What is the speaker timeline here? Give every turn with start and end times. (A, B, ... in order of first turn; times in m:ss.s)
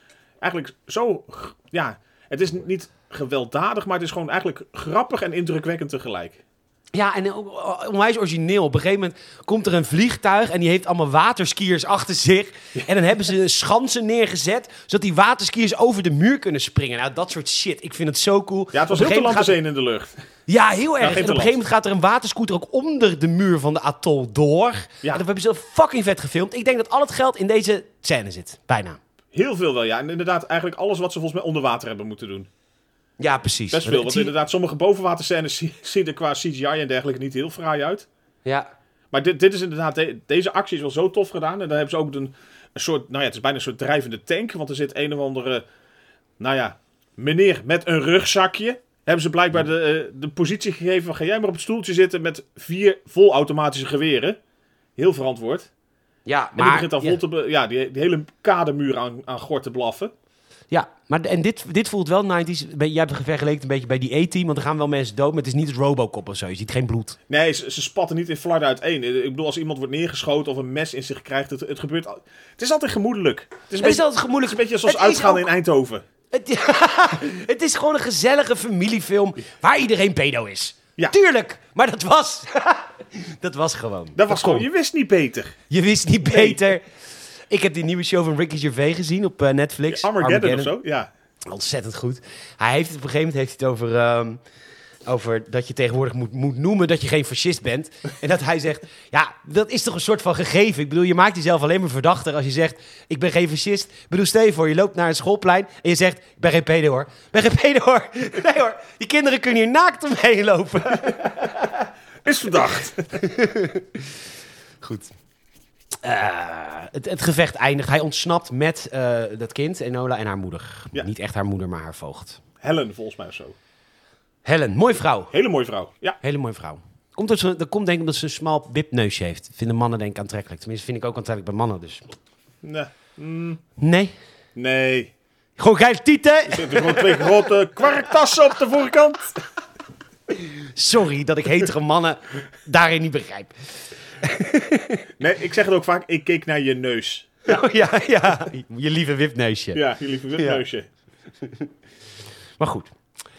0:00.4-0:06.4 A
0:06.9-0:19.6 B
0:18.7-0:20.1 A
0:20.5-0:29.0 B
0:21.0-0:21.6 A
0:29.3-0:32.5 A
0:33.2-0:34.3 B
0:33.7-0:38.1 A
0:39.1-0:45.6 A
0:46.4-0:54.4 A
0:55.0-0:55.7 A
0:56.3-0:57.2 B
0:56.6-1:00.1 A
1:00.7-1:07.2 B
1:07.3-1:16.0 A
1:13.8-1:15.5 B
1:16.3-1:24.7 B
1:24.2-1:25.6 A
1:25.7-1:26.9 B
1:26.2-1:26.6 A
1:27.5-1:30.7 B
1:29.9-1:31.1 A
1:31.5-1:34.4 B
1:35.0-1:51.9 B
1:52.2-1:53.2 A
1:53.1-1:54.2 B
1:54.8-1:55.1 B
1:56.0-2:02.4 B
2:02.6-2:03.6 A
2:04.4-2:05.3 B
2:05.3-2:06.2 A
2:06.2-2:12.1 B
2:12.6-2:13.6 A
2:13.8-2:14.1 B
2:14.6-2:15.1 A
2:15.6-2:17.5 B
2:16.5-2:19.4 A
2:20.3-2:23.5 B
2:24.2-2:25.1 B
2:25.2-2:27.6 A
2:27.5-2:29.8 B
2:29.7-2:30.9 A
2:30.4-2:30.6 B
2:31.4-2:31.7 B
2:32.6-2:32.9 B